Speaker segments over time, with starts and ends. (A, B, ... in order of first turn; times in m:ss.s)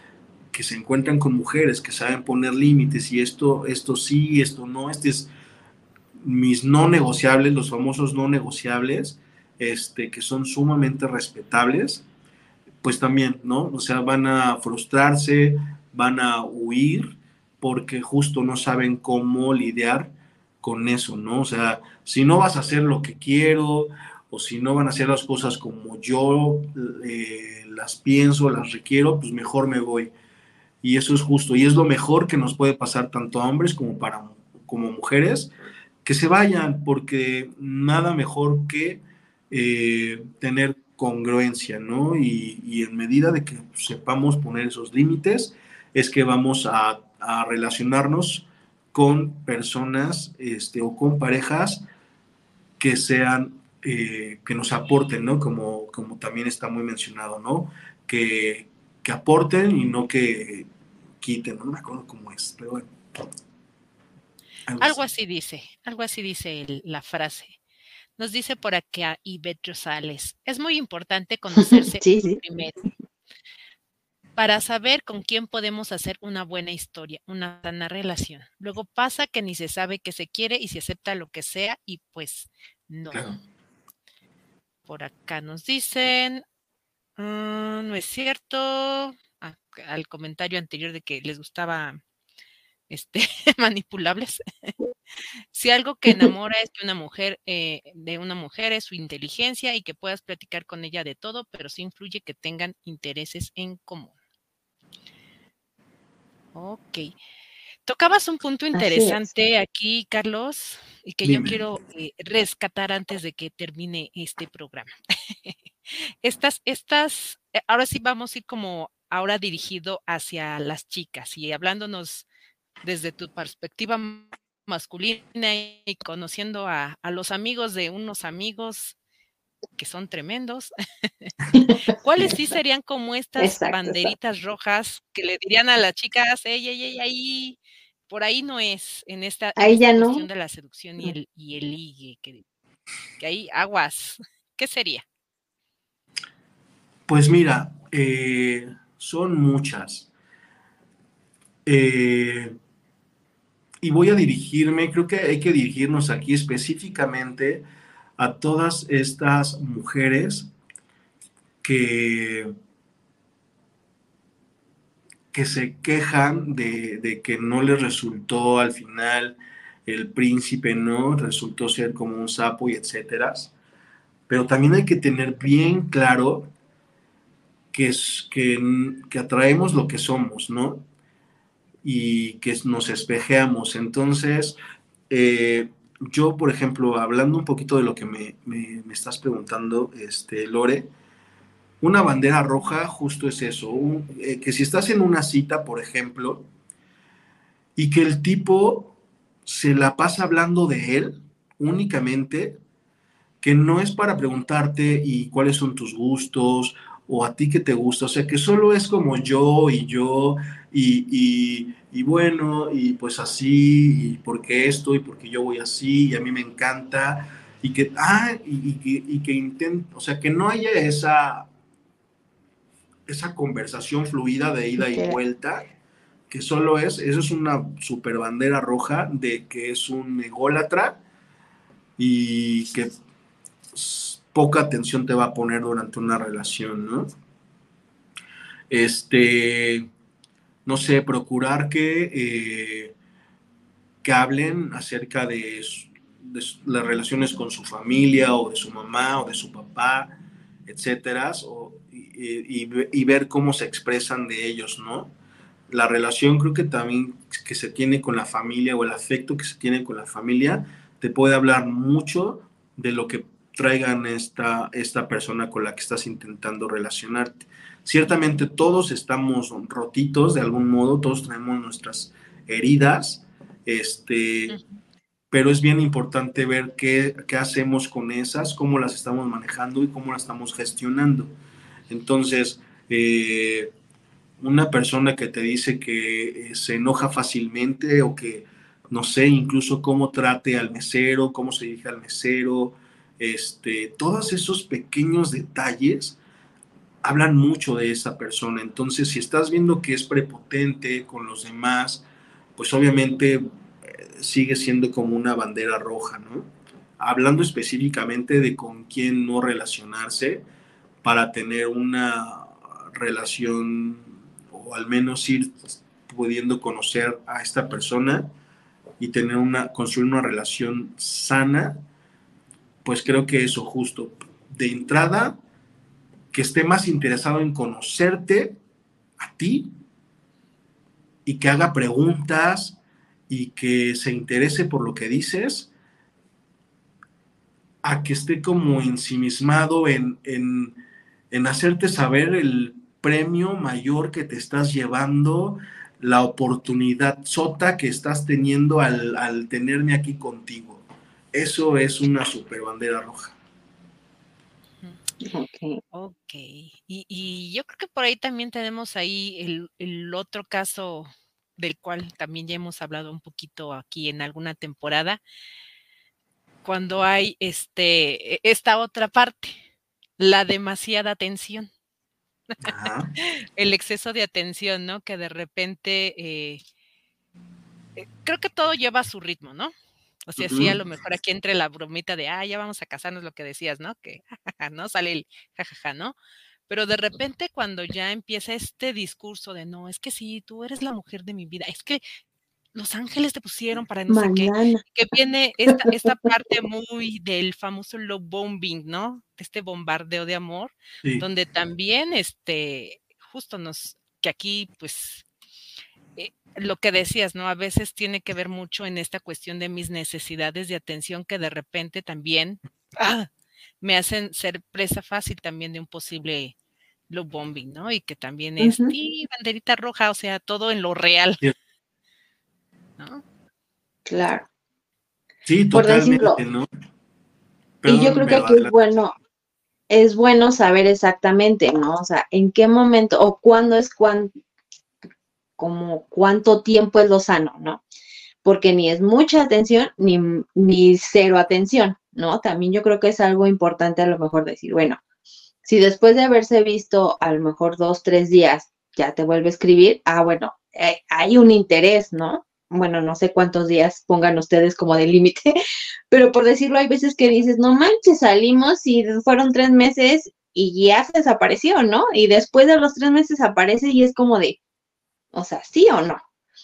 0:00.5-0:05.3 A
0:06.2-0:12.0 A
0:12.8-0:30.1 A
0:30.8-0:35.5 A
0:36.0-0:51.8 A
0:52.8-1:00.7 A
1:01.2-1:02.9 A
1:04.7-1:05.0 A
1:04.8-1:07.6 B
1:08.2-1:12.9 B
1:11.6-1:12.4 C
1:14.4-1:23.4 B
1:23.1-1:23.4 A
1:24.8-1:26.4 B
1:27.2-1:32.0 B
1:32.9-1:34.7 B
1:35.5-1:44.1 B
1:46.5-1:47.1 B
1:47.8-2:02.2 B
1:48.7-1:49.3 C
1:51.2-1:51.6 A
2:02.8-2:09.0 B
2:09.8-2:11.3 B
2:11.9-2:22.4 B
2:13.4-2:14.1 C
2:19.6-2:20.2 C
2:23.2-2:25.0 B
2:27.1-2:30.1 A
2:31.6-2:32.5 A
2:33.8-2:37.6 A
2:38.2-2:40.5 A
2:41.6-2:42.5 A
2:45.3-2:53.5 A
2:54.3-2:56.5 A
2:57.7-3:00.8 A
3:01.8-3:04.6 A
3:05.1-3:10.9 A
3:11.8-3:16.5 A
3:17.8-3:22.6 A
3:23.4-3:41.5 A
3:43.1-3:45.7 A
3:44.8-3:45.2 C
3:46.3-3:51.0 A
3:52.0-3:52.9 A
3:53.7-3:57.1 A
3:58.7-3:59.9 A
4:00.6-4:02.9 A
4:04.0-4:15.1 A
4:15.7-4:34.6 A
4:34.5-4:34.8 B
4:35.3-4:41.3 A
4:41.9-4:43.7 A
4:44.4-4:56.2 A
4:57.0-5:02.0 A
5:02.6-5:10.4 A
5:11.0-5:18.3 A
5:19.0-5:21.8 A
5:22.8-5:25.4 A
5:26.3-5:28.6 A
5:29.2-5:29.7 A
5:31.2-5:32.8 A
5:33.3-5:35.7 A
5:37.8-5:40.8 A
5:41.3-5:53.4 A
5:55.2-5:55.8 C
5:55.9-6:05.2 B
6:06.6-6:09.6 B
6:10.2-6:11.7 B
6:12.6-6:13.1 A
6:13.2-6:16.6 B
6:18.0-6:19.7 B
6:20.2-6:26.2 B
6:20.4-6:20.8 A
6:26.7-6:32.0 B
6:32.7-6:45.2 B
6:34.1-6:34.8 C
6:46.2-6:53.3 B
6:53.8-6:56.6 B
6:57.1-7:01.4 B
6:58.6-6:58.9 C
7:03.0-7:03.2 B
7:04.1-7:04.5 C
7:05.4-7:06.7 A
7:05.7-7:06.4 C
7:07.8-7:08.7 A
7:07.8-7:09.1 C
7:09.9-7:14.3 C
7:15.6-7:17.8 C
7:18.4-7:25.0 C
7:25.6-7:35.5 C
7:36.1-7:44.6 C
7:45.3-7:46.2 C